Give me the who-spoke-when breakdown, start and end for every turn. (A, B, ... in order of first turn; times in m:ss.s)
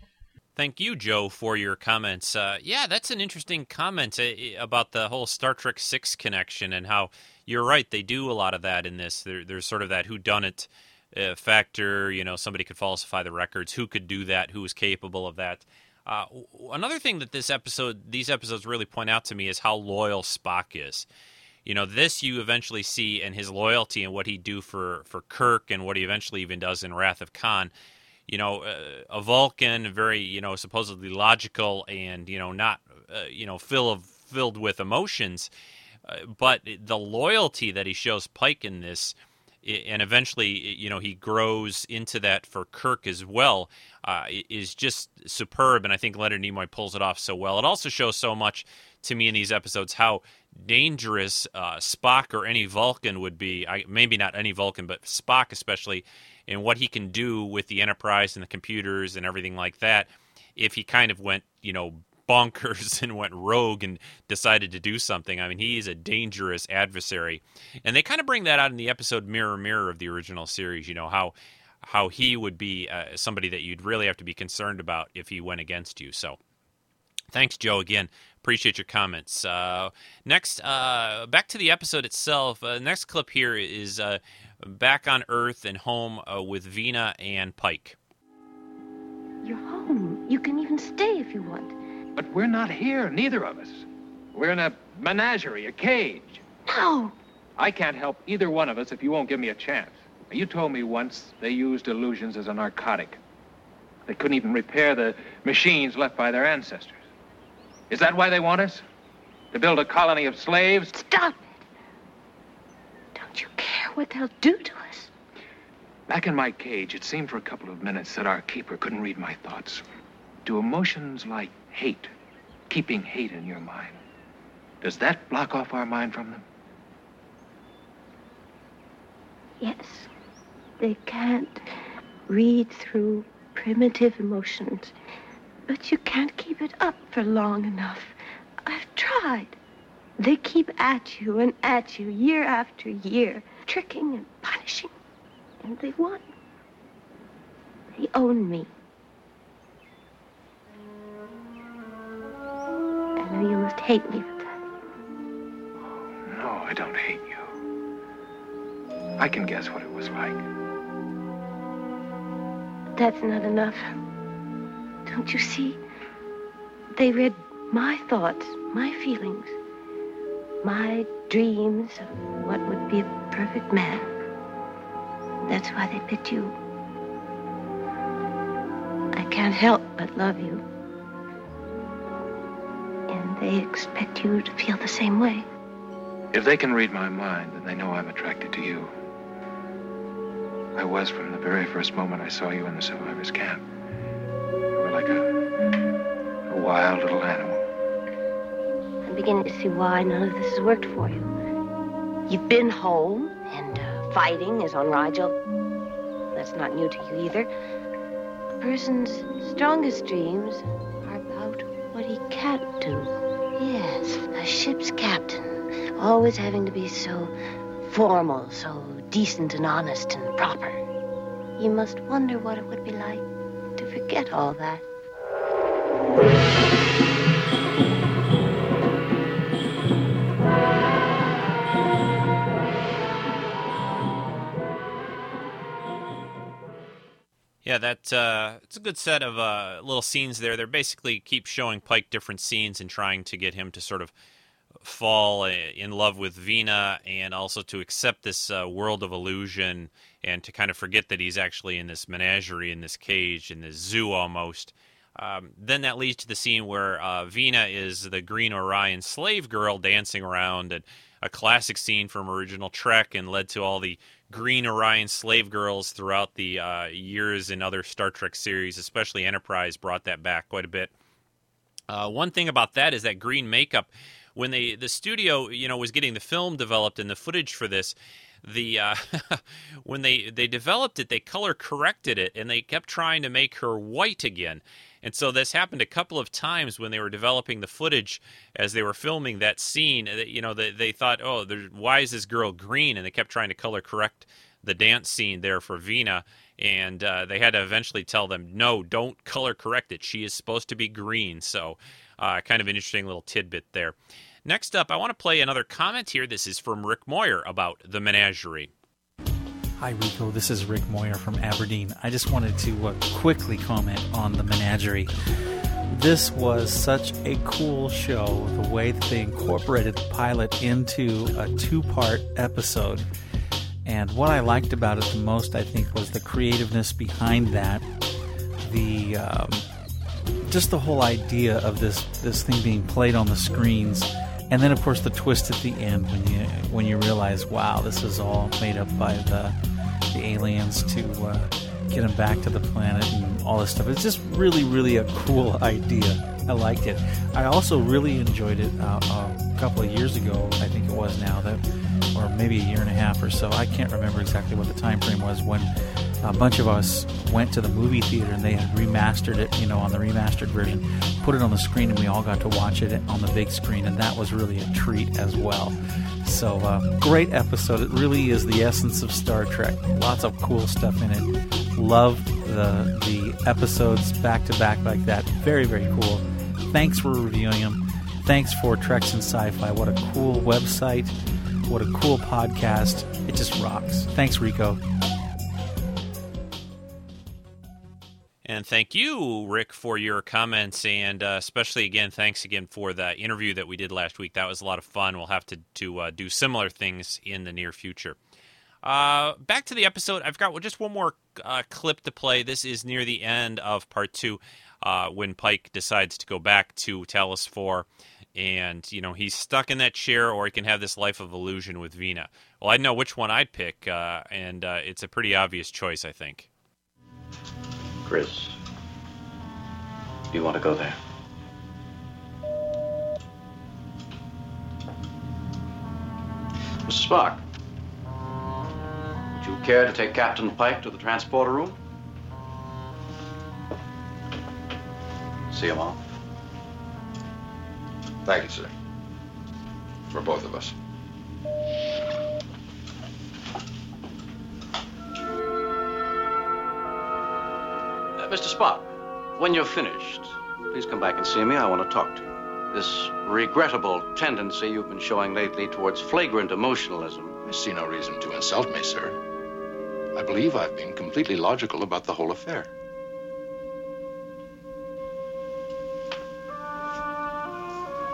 0:00.6-0:21.1 A
0:21.6-0:27.7 A
0:28.3-0:35.5 A
0:36.0-1:16.4 A
1:17.3-1:28.0 A
1:29.4-1:31.7 B
1:32.2-1:36.4 C
1:36.7-1:37.1 B
1:37.6-1:43.2 C
1:44.1-1:47.0 C
1:47.9-1:48.8 C
1:49.5-1:50.9 C
1:50.9-1:51.6 B
1:53.1-1:55.1 B
1:56.1-1:59.8 C
2:00.4-2:02.1 C
2:02.7-2:04.0 C
2:04.8-2:06.4 C
2:09.6-2:10.1 B
2:10.8-2:11.7 B
2:12.3-2:14.9 B
2:15.7-2:18.1 B
2:18.6-2:19.6 B
2:20.2-2:24.9 B
2:25.6-2:26.3 B
2:27.9-2:28.7 B
2:33.2-2:34.6 B
2:35.9-2:37.6 C
2:39.2-2:40.4 C
2:43.0-2:43.9 B
2:45.0-2:45.8 B
2:46.9-2:49.6 B
2:50.6-2:54.1 B
2:55.4-2:56.6 B
2:59.1-3:00.6 B
3:03.1-3:05.4 B
3:06.3-3:08.9 C
3:10.7-3:13.6 C
3:14.7-3:15.3 C
3:16.5-3:17.6 C
3:19.0-3:21.3 B
3:22.3-3:25.3 B
3:26.3-3:27.5 B
3:28.6-3:40.8 B
3:41.6-3:43.2 B
3:43.8-3:44.8 B
3:57.6-4:04.1 A
4:04.8-4:30.9 A
4:31.9-5:08.7 A
5:09.8-5:15.1 D
5:15.9-5:23.1 D
5:23.8-5:27.8 D
5:28.6-5:29.6 D
5:30.5-5:39.6 D
5:40.1-5:55.7 D
5:56.2-6:21.1 D
6:21.7-6:24.8 D
6:28.4-6:38.2 A
6:38.8-6:56.5 A
6:58.0-6:58.5 E
7:00.3-7:01.0 E
7:06.8-7:07.4 E
7:09.4-7:11.8 E
7:15.5-7:16.0 E
7:18.2-7:18.7 F
7:20.1-7:20.7 F
7:28.2-7:37.3 E
7:37.4-7:39.2 F
7:40.1-7:42.7 F